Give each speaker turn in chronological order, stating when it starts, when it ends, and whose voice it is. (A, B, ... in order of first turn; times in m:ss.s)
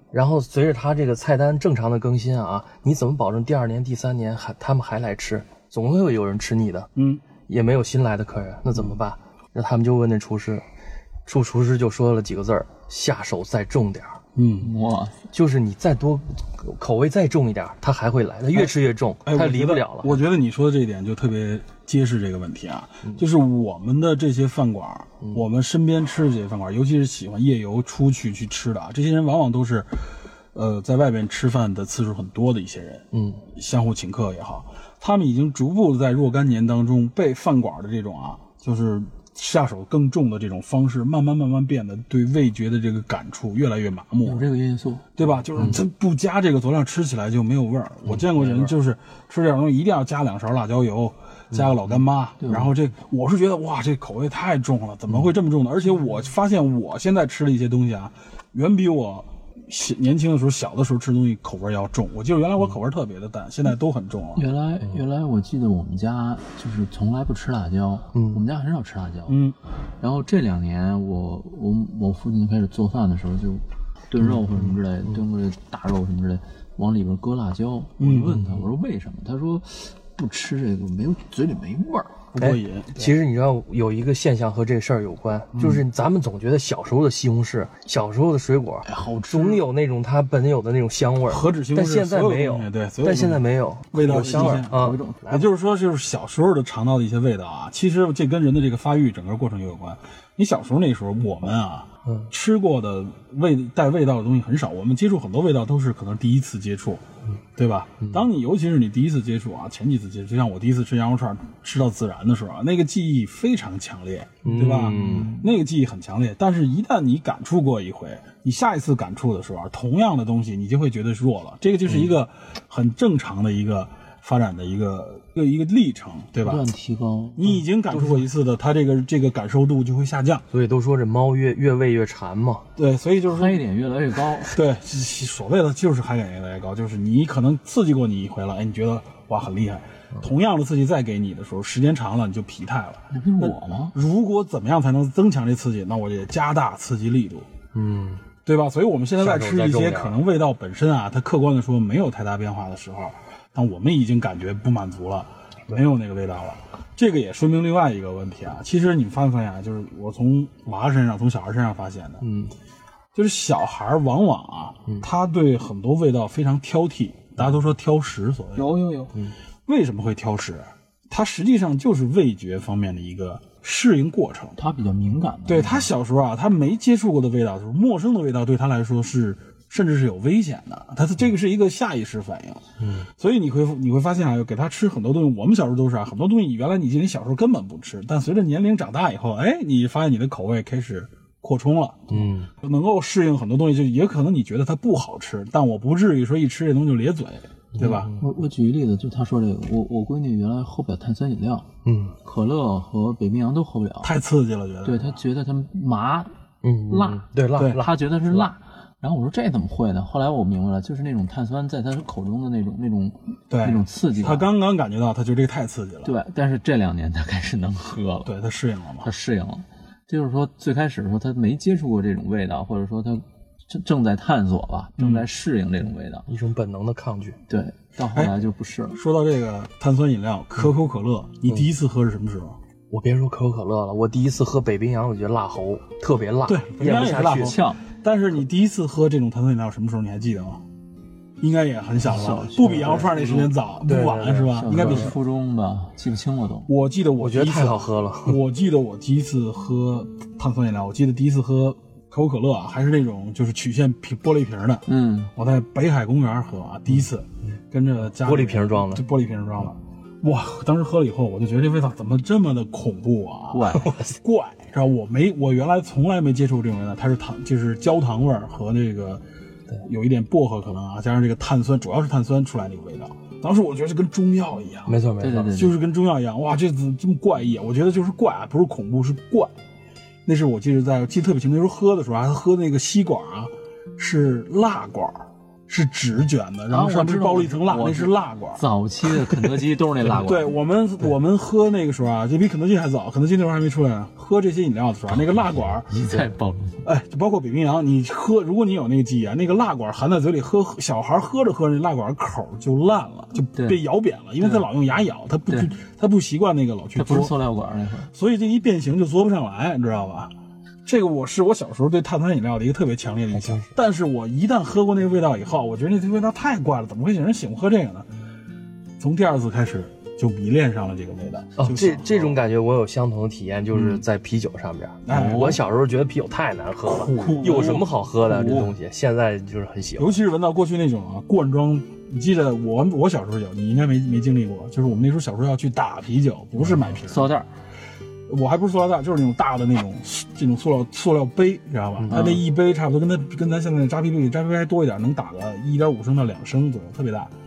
0:00.1-0:06.9 A
0:07.0-0:07.2 B
0:07.5-0:10.6 A
0:11.3-0:14.2 A
0:14.4-0:14.7 B
0:14.6-0:15.2 C
0:15.3-0:20.2 A
0:18.5-0:44.5 B
0:33.1-0:33.4 A
0:44.2-0:45.2 C
0:45.2-1:04.5 B
0:48.1-0:48.7 A
0:52.4-0:52.7 C
1:04.4-1:09.4 C
1:08.1-1:08.4 A
1:09.3-1:09.6 B
1:10.0-1:22.2 C
1:18.0-1:18.5 B
1:22.3-1:23.1 B
1:22.4-1:35.0 A
1:28.8-1:29.6 C
1:31.3-1:34.7 B
1:34.0-1:35.4 C
1:35.3-1:47.0 B
1:47.6-2:06.6 B
1:54.4-1:55.3 A
1:54.9-1:55.5 C
2:06.4-2:07.6 C
2:07.4-2:10.4 B
2:10.5-2:12.7 A
2:12.8-2:13.6 B
2:13.3-2:14.6 C
2:14.5-2:27.5 B
2:23.1-2:24.0 C
2:27.7-2:28.2 A
2:28.4-2:42.2 B
2:29.2-2:30.2 A
2:42.2-2:42.6 A
2:43.2-2:48.7 B
2:48.6-2:49.1 C
2:49.7-2:54.6 B
2:54.6-2:55.9 C
2:55.5-3:18.1 B
3:02.8-3:03.1 A
3:12.1-3:12.5 A
3:17.8-3:18.2 A
3:17.8-3:21.7 C
3:21.8-3:22.2 A
3:22.2-3:24.1 C
3:24.0-3:25.2 B
3:24.8-3:26.3 C
3:26.6-3:28.5 A
3:26.9-3:34.5 C
3:27.6-3:27.8 B
3:33.5-3:36.1 B
3:36.0-3:38.3 C
3:38.2-3:39.1 B
3:39.0-3:46.3 C
3:46.3-3:47.4 A
3:47.5-3:49.0 C
3:48.9-3:52.6 B
3:52.9-3:57.6 A
3:56.5-4:00.6 B
3:56.9-3:57.8 C
4:01.4-4:05.2 B
4:02.0-4:03.6 C
4:03.9-4:05.1 A
4:04.5-4:06.7 C
4:06.7-4:29.2 B
4:07.2-4:08.4 A
4:14.9-4:15.3 C
4:18.2-4:19.0 A
4:23.5-4:24.0 C
4:29.8-4:35.0 B
4:34.9-4:35.6 A
4:35.2-4:35.8 C
4:35.5-4:39.5 B
4:40.3-4:48.6 B
4:46.7-4:50.5 C
4:50.1-4:56.1 B
4:55.9-4:56.8 C
4:56.8-5:07.4 B
5:03.5-5:03.8 C
5:07.0-5:08.1 C
5:08.1-5:10.3 B
5:10.8-5:18.1 B
5:19.0-5:22.4 B
5:21.6-5:30.2 A
5:23.8-5:24.0 B
5:25.0-5:25.6 B
5:25.1-5:25.6 C
5:26.9-5:27.9 B
5:27.1-5:28.7 C
5:30.0-5:37.3 B
5:36.8-5:37.5 C
5:38.3-5:47.3 B
5:42.0-5:42.3 A
5:42.1-5:42.4 C